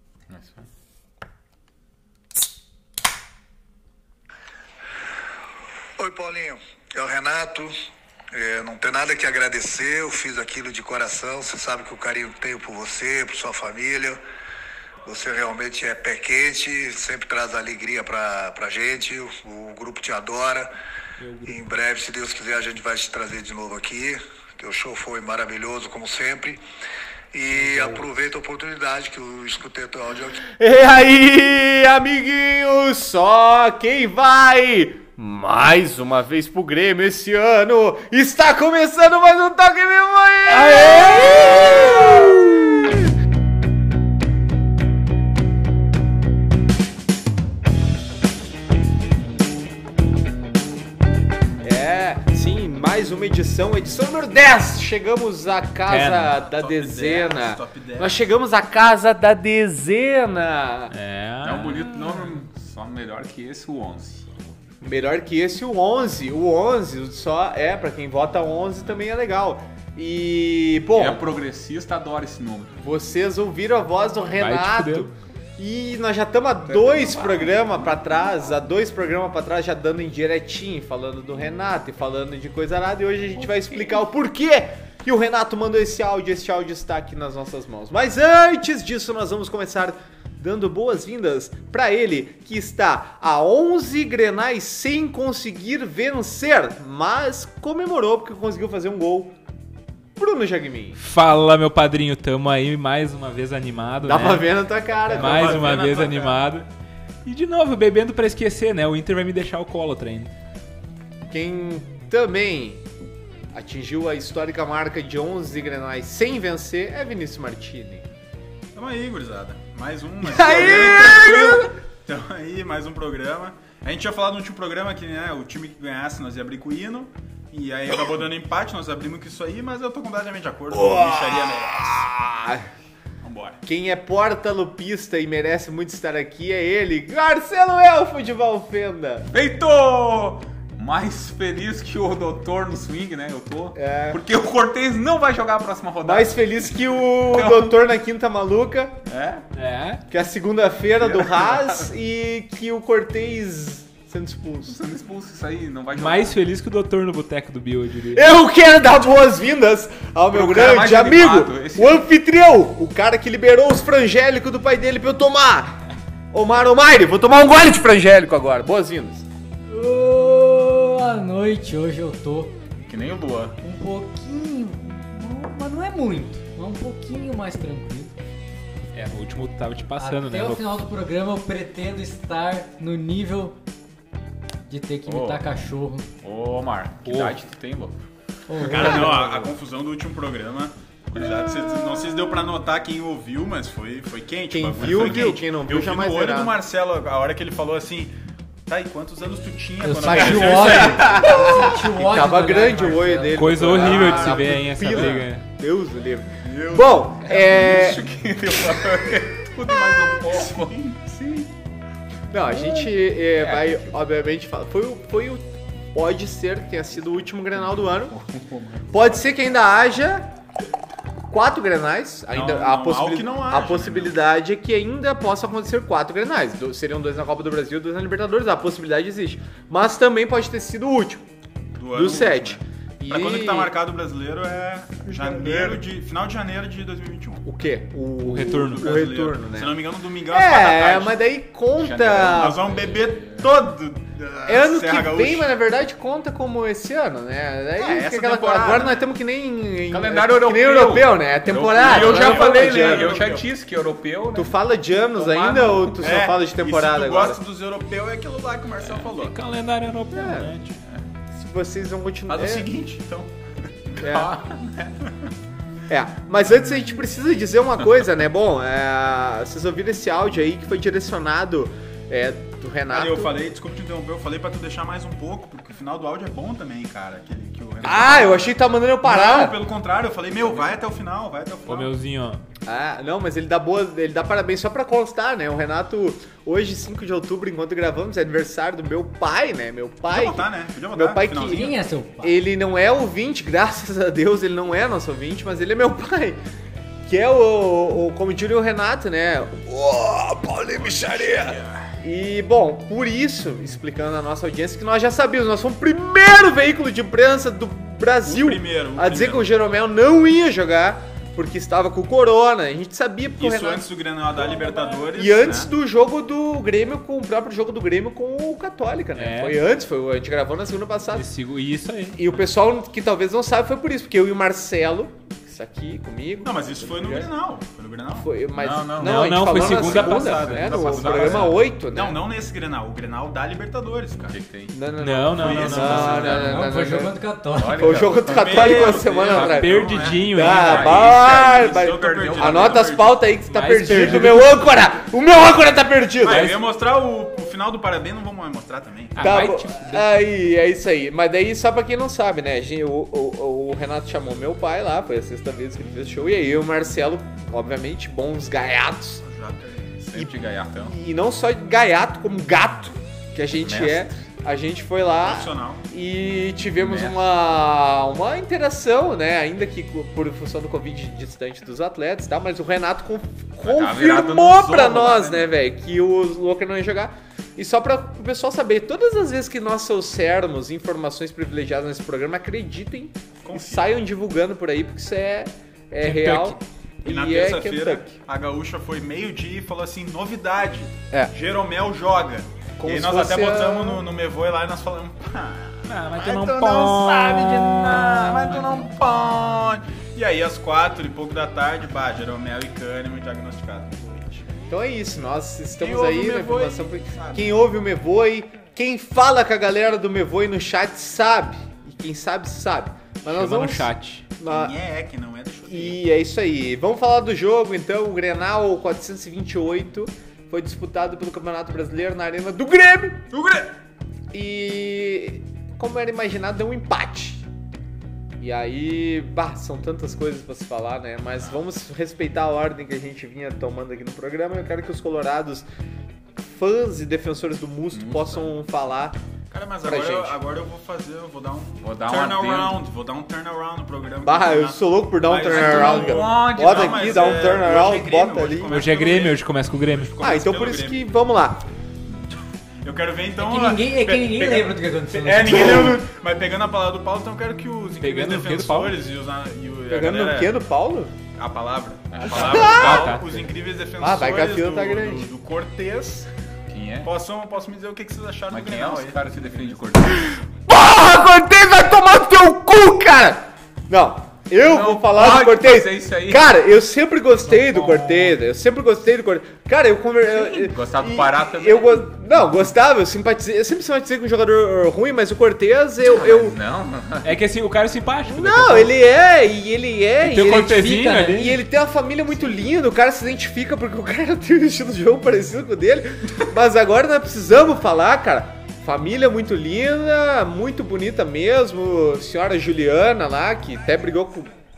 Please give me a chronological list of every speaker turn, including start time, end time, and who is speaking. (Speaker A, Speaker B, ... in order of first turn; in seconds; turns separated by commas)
Speaker A: 0.3-0.7, Speaker B: 6.0-7.7, Speaker B: 8.3-14.2, Speaker B: 15.1-20.7, Speaker C: 21.2-21.6, Speaker B: 21.5-26.6, Speaker B: 27.3-30.4, Speaker C: 27.6-28.0, Speaker D: 30.4-43.0, Speaker C: 40.8-41.4, Speaker D: 51.6-60.9, Speaker C: 55.9-56.3, Speaker E: 56.4-58.2, Speaker C: 60.9-62.3, Speaker A: 61.4-64.4, Speaker D: 64.8-71.2, Speaker A: 71.0-72.8, Speaker D: 72.8-99.3, Speaker C: 74.4-75.1, Speaker A: 76.7-77.7, Speaker D: 100.2-101.0, Speaker C: 101.0-104.5, Speaker D: 104.0-105.8, Speaker C: 105.1-106.7, Speaker E: 105.1-106.3, Speaker C: 107.2-110.3, Speaker D: 111.3-112.8, Speaker D: 113.5-118.0, Speaker E: 118.7-132.0, Speaker D: 120.2-121.7, Speaker D: 130.7-132.7, Speaker E: 133.2-133.6, Speaker D: 133.6-139.3, Speaker A: 139.3-147.7, Speaker D: 143.7-144.2, Speaker D: 146.0-149.0, Speaker A: 149.1-149.4, Speaker C: 149.6-150.0, Speaker D: 150.1-154.8, Speaker A: 151.0-151.9, Speaker A: 154.7-156.4, Speaker C: 155.9-158.2, Speaker D: 158.1-165.7, Speaker A: 160.3-162.0, Speaker D: 166.3-169.2, Speaker F: 169.7-172.5, Speaker A: 172.8-173.6, Speaker F: 173.6-178.1, Speaker C: 178.9-180.7, Speaker F: 180.0-183.5, Speaker F: 184.7-186.1, Speaker A: 185.1-185.4, Speaker A: 186.2-188.0, Speaker C: 187.0-187.4, Speaker F: 188.5-189.2, Speaker E: 188.6-198.1, Speaker A: 188.8-189.3, Speaker D: 194.5-196.6, Speaker A: 194.8-195.3, Speaker E: 198.7-201.2, Speaker F: 199.8-203.6, Speaker D: 200.1-208.0, Speaker A: 200.5-201.4, Speaker C: 203.3-205.4, Speaker A: 203.7-204.3, Speaker E: 204.0-204.2, Speaker A: 204.9-205.2, Speaker E: 206.4-207.0, Speaker A: 207.2-210.9, Speaker E: 210.1-211.4, Speaker D: 212.3-218.1, Speaker A: 212.4-214.0, Speaker A: 217.0-219.3, Speaker D: 218.9-220.3, Speaker D: 221.3-231.2, Speaker E: 222.3-224.1, Speaker E: 231.8-237.4, Speaker D: 231.9-233.7, Speaker D: 235.1-235.8, Speaker D: 237.4-242.6, Speaker C: 238.2-238.9, Speaker E: 238.7-241.2, Speaker A: 241.8-243.5, Speaker E: 242.2-245.5, Speaker D: 244.4-253.3, Speaker E: 247.8-249.0, Speaker A: 249.9-254.5, Speaker E: 251.8-253.4, Speaker D: 254.3-257.4, Speaker A: 255.1-256.2, Speaker E: 256.0-259.3, Speaker C: 259.1-260.8, Speaker D: 260.1-260.5, Speaker D: 261.3-262.7, Speaker E: 262.3-263.3, Speaker D: 264.0-264.3, Speaker A: 264.0-265.0, Speaker D: 265.9-273.3, Speaker E: 272.9-281.9, Speaker D: 277.8-279.6, Speaker C: 281.7-282.4, Speaker D: 282.6-296.4, Speaker E: 290.1-291.7, Speaker F: 291.4-292.4, Speaker D: 297.1-313.8, Speaker E: 301.3-301.6, Speaker E: 308.2-309.5, Speaker E: 313.4-315.7, Speaker C: 314.5-314.9, Speaker D: 315.1-321.3, Speaker C: 319.1-319.6, Speaker C: 321.1-322.2, Speaker D: 322.2-327.2, Speaker E: 326.4-328.3, Speaker D: 328.1-332.2, Speaker A: 328.5-331.6, Speaker C: 329.0-331.2, Speaker E: 329.6-334.4, Speaker A: 334.2-334.7, Speaker D: 334.7-337.1, Speaker C: 335.0-336.3, Speaker E: 335.4-336.3, Speaker A: 335.4-336.6, Speaker F: 336.4-338.1, Speaker A: 337.6-339.1, Speaker D: 337.7-346.5, Speaker E: 338.2-343.2, Speaker C: 339.3-340.9, Speaker A: 340.0-342.9, Speaker C: 343.5-344.6, Speaker A: 343.9-344.2, Speaker E: 346.2-349.3, Speaker C: 346.3-346.6, Speaker C: 349.1-350.1, Speaker D: 349.2-359.2, Speaker E: 359.2-360.0, Speaker A: 360.0-360.9, Speaker D: 360.1-388.1, Speaker A: 363.6-364.1, Speaker E: 365.2-365.9, Speaker A: 366.8-367.2, Speaker A: 373.6-375.5, Speaker E: 383.4-383.9, Speaker C: 386.0-386.6, Speaker E: 387.1-404.5, Speaker D: 392.8-394.0, Speaker C: 395.9-398.8, Speaker D: 404.7-414.7, Speaker E: 405.8-407.6, Speaker C: 413.3-414.2, Speaker E: 414.4-416.0, Speaker D: 415.7-423.2, Speaker E: 423.3-423.7, Speaker D: 424.3-427.4, Speaker D: 428.4-435.7, Speaker D: 436.4-439.2, Speaker A: 437.9-438.5, Speaker E: 439.5-451.0, Speaker D: 439.8-440.4, Speaker A: 441.8-442.8, Speaker D: 444.2-448.7, Speaker A: 445.5-446.4, Speaker C: 448.7-450.1, Speaker D: 450.2-451.6, Speaker E: 452.8-460.5, Speaker F: 453.4-455.9, Speaker D: 455.4-456.0, Speaker C: 458.0-458.9, Speaker D: 459.9-461.1, Speaker E: 461.4-466.3, Speaker A: 462.1-463.1, Speaker D: 462.3-463.1, Speaker C: 462.6-463.2, Speaker D: 464.0-465.3, Speaker A: 466.7-467.1, Speaker E: 467.0-469.8, Speaker A: 468.5-470.3, Speaker D: 470.6-486.6, Speaker A: 474.6-476.5, Speaker F: 477.4-478.4, Speaker A: 480.3-482.5, Speaker A: 486.0-487.4, Speaker C: 487.2-488.9, Speaker D: 488.3-504.5, Speaker C: 490.2-491.5, Speaker F: 490.7-491.5